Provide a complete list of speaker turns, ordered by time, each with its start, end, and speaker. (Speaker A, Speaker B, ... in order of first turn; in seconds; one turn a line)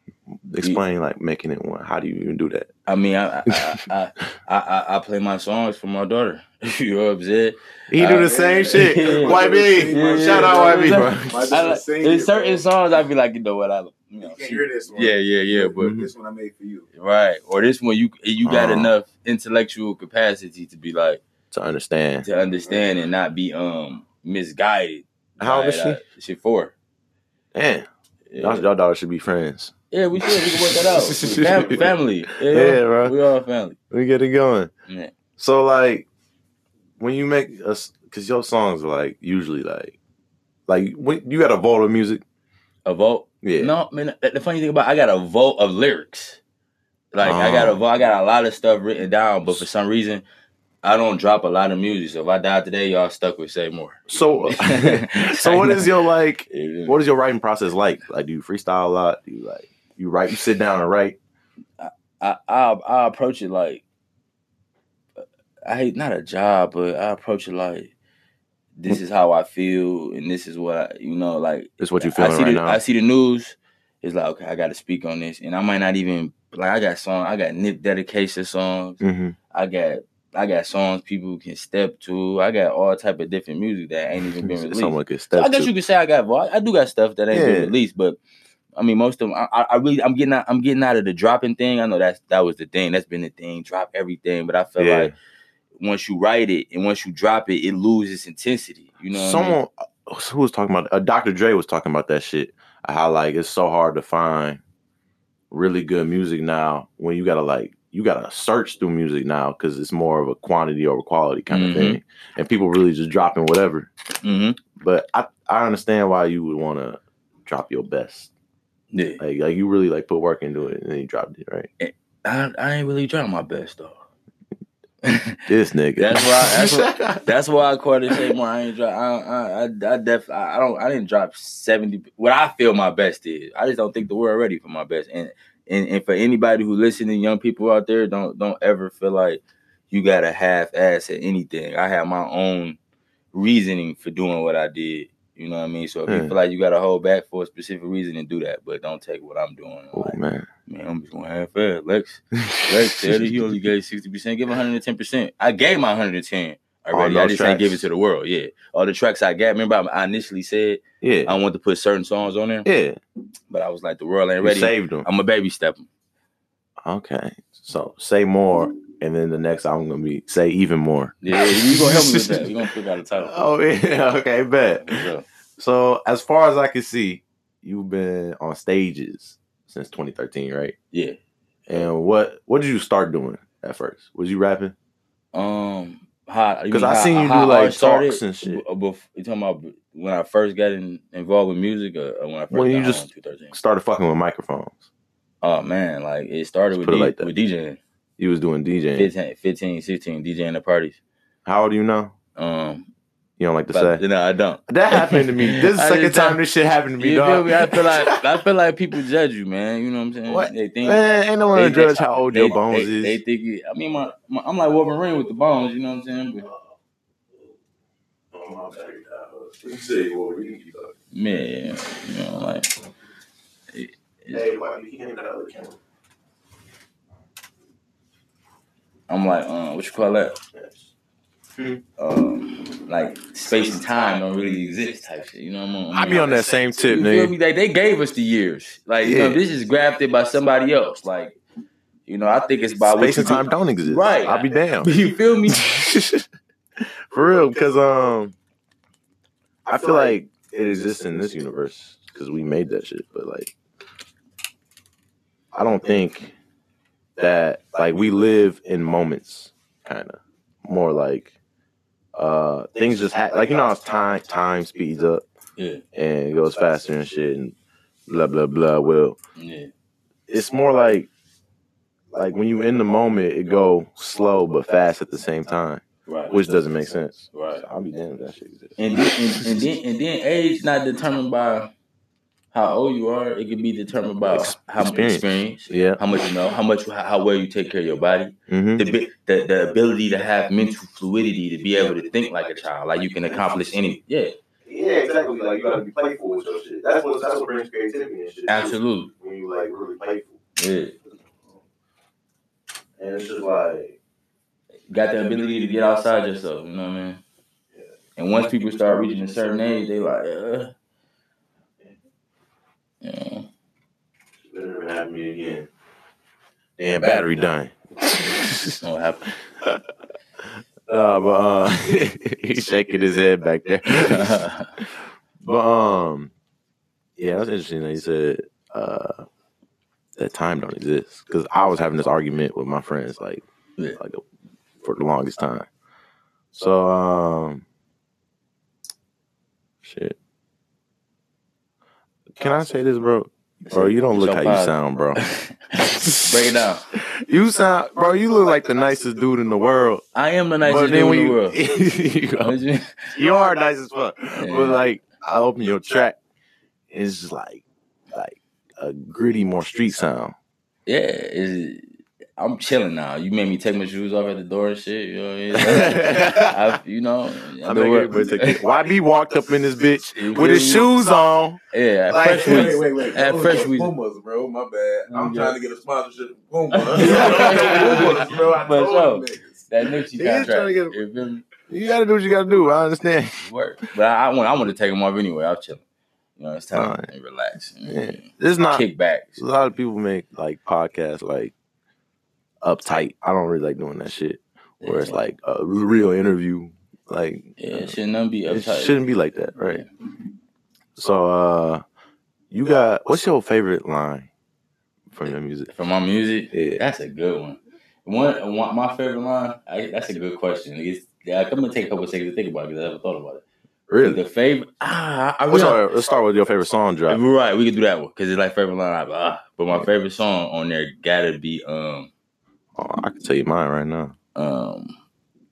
Speaker A: 0.4-2.7
Speaker B: 2.9-15.9
Speaker A: 7.9-11.7
Speaker C: 8.1-12.6
Speaker C: 14.2-16.9
Speaker A: 15.8-16.1
Speaker B: 16.9-21.2
Speaker A: 18.4-18.9
Speaker A: 21.5-22.2
Speaker B: 22.2-26.7
Speaker A: 25.4-26.0
Speaker A: 27.5-27.9
Speaker B: 28.3-28.6
Speaker A: 28.4-33.1
Speaker B: 29.9-33.8
Speaker A: 33.9-34.7
Speaker B: 34.9-35.1
Speaker A: 35.4-36.1
Speaker A: 37.0-40.0
Speaker A: 40.7-42.2
Speaker B: 42.9-46.4
Speaker A: 43.4-43.7
Speaker B: 47.1-50.2
Speaker A: 47.2-47.8
Speaker B: 50.8-55.9
Speaker A: 54.1-61.2
Speaker B: 56.5-57.0
Speaker B: 61.8-63.8
Speaker B: 65.6-67.9
Speaker B: 68.8-79.0
Speaker A: 71.8-72.8
Speaker A: 79.0-79.3
Speaker B: 79.5-88.2
Speaker A: 84.4-85.7
Speaker A: 87.3-87.7
Speaker B: 88.8-95.1
Speaker A: 94.8-95.1
Speaker B: 95.8-99.6
Speaker A: 99.1-104.6
Speaker A: 105.5-113.9
Speaker B: 111.5-112.0
Speaker B: 114.2-114.6
Speaker A: 114.8-118.3
Speaker B: 118.9-119.2
Speaker A: 119.2-121.7
Speaker B: 121.8-124.0
Speaker B: 125.0-125.4
Speaker A: 125.5-127.3
Speaker B: 126.0-142.8
Speaker B: 143.3-162.7
Speaker A: 146.1-146.3
Speaker A: 149.9-150.5
Speaker A: 152.5-153.4
Speaker A: 156.9-157.9
Speaker A: 161.0-161.3
Speaker A: 162.6-163.0
Speaker B: 163.5-165.9
Speaker A: 164.4-165.1
Speaker A: 166.8-172.6
Speaker B: 171.2-173.4
Speaker A: 173.2-180.7
Speaker B: 174.8-175.2
Speaker B: 180.9-181.2
Speaker A: 181.7-184.7
Speaker B: 185.3-193.6
Speaker A: 186.7-188.6
Speaker A: 192.5-194.8
Speaker B: 195.4-197.8
Speaker A: 196.7-197.3
Speaker A: 198.2-199.1
Speaker B: 198.9-201.0
Speaker A: 201.4-202.1
Speaker B: 202.3-202.9
Speaker A: 203.4-204.0
Speaker B: 203.7-206.4
Speaker A: 204.7-208.3
Speaker B: 207.0-211.0
Speaker A: 210.3-213.2
Speaker B: 211.5-216.5
Speaker A: 218.3-220.9
Speaker B: 221.1-222.7
Speaker B: 223.7-224.5
Speaker A: 224.3-225.7
Speaker B: 229.1-230.4
Speaker B: 232.0-241.4
Speaker A: 235.9-237.3
Speaker A: 239.0-239.4
Speaker B: 242.1-245.7
Speaker A: 242.9-244.9
Speaker A: 245.5-246.3
Speaker A: 246.8-248.3
Speaker A: 249.7-253.5
Speaker A: 255.5-256.3
Speaker A: 257.2-261.3
Speaker A: 262.1-265.2
Speaker B: 265.6-265.8
Speaker A: 265.9-267.5
Speaker A: 268.1-269.1
Speaker B: 269.4-269.7
Speaker A: 270.3-271.1
Speaker A: 272.1-279.7
Speaker B: 276.1-276.3
Speaker B: 277.3-277.6
Speaker B: 278.8-281.7
Speaker B: 282.5-294.3
Speaker A: 284.2-286.0
Speaker A: 288.5-288.9
Speaker A: 294.6-300.4
Speaker B: 298.5-299.1
Speaker B: 300.6-300.9
Speaker A: 303.0-303.9
Speaker B: 304.9-307.2
Speaker B: 308.2-310.7
Speaker A: 308.9-309.3
Speaker B: 313.0-313.5
Speaker A: 314.4-315.7
Speaker A: 316.8-318.8
Speaker B: 316.9-317.2
Speaker B: 318.8-319.3
Speaker A: 320.9-326.3
Speaker B: 323.9-324.7
Speaker A: 327.2-329.2
Speaker A: 330.2-333.4
Speaker A: 334.0-334.2
Speaker A: 334.8-335.7
Speaker A: 336.5-337.6
Speaker A: 339.8-340.2
Speaker A: 342.3-345.2
Speaker B: 343.7-345.6
Speaker A: 345.7-350.0
Speaker B: 346.2-346.9
Speaker B: 350.1-351.6
Speaker A: 350.6-352.5
Speaker B: 352.4-353.1
Speaker A: 353.1-356.2
Speaker B: 354.3-354.8
Speaker A: 356.9-360.3
Speaker B: 360.9-361.8
Speaker B: 362.4-368.6
Speaker A: 365.6-366.5
Speaker A: 367.6-371.6
Speaker B: 370.1-370.9
Speaker B: 371.7-373.9
Speaker A: 372.1-372.8
Speaker C: 372.2-379.6
Speaker B: 375.1-375.6
Speaker B: 376.7-381.4
Speaker A: 376.9-378.4
Speaker A: 380.2-380.9
Speaker A: 381.7-383.4
Speaker B: 383.4-385.8
Speaker B: 386.4-389.4
Speaker A: 386.7-387.1
Speaker A: 387.9-388.9
Speaker A: 389.4-391.5
Speaker A: 392.6-398.0
Speaker B: 394.8-395.2
Speaker B: 397.6-399.0
Speaker A: 398.5-399.8
Speaker B: 399.6-399.9
Speaker A: 400.9-401.8
Speaker A: 402.5-404.3
Speaker A: 405.1-405.7
Speaker B: 405.7-413.4
Speaker A: 406.5-406.8
Speaker A: 413.9-414.2
Speaker B: 414.0-415.8
Speaker A: 415.5-417.2
Speaker B: 417.1-422.1
Speaker A: 422.8-424.1
Speaker B: 424.3-425.0